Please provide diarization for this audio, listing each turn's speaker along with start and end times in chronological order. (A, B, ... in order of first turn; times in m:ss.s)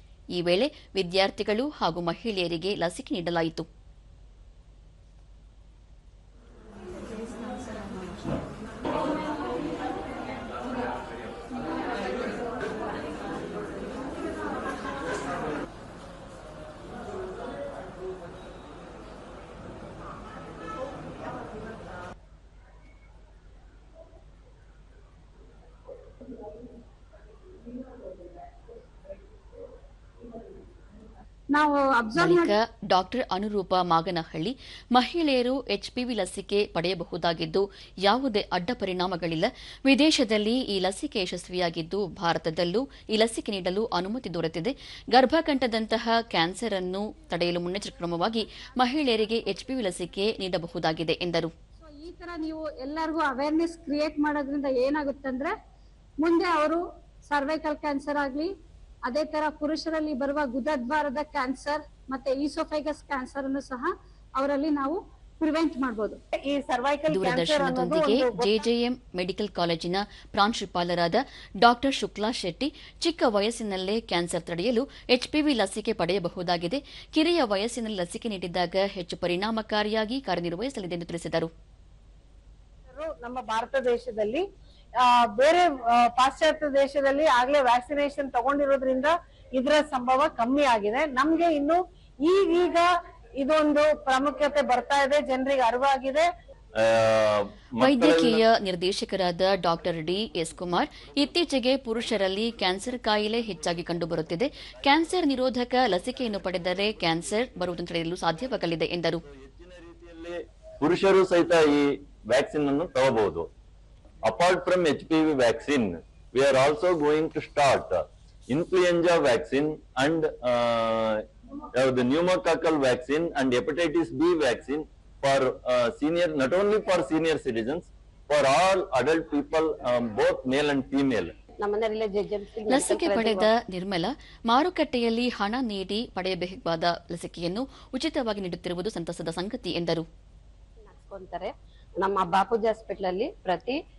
0:00.3-0:03.6 A
0:31.5-0:32.5 B
0:32.2-0:51.5 A
0:51.8-0:55.5 B
0:56.2-0:58.5 B
0:59.0-1:06.2 B
1:06.4-1:08.6 C
1:07.1-1:21.5 A
1:22.9-1:24.4 C
1:25.0-1:32.9 C
1:33.4-1:36.3 C
1:36.8-1:38.4 D
1:37.8-1:49.2 A
1:40.0-1:47.6 D
1:49.2-1:53.5 D
1:54.2-2:01.2 D
2:01.7-2:11.3 D
2:11.6-2:13.5 E
2:12.7-2:20.0 A
2:20.8-2:23.8 E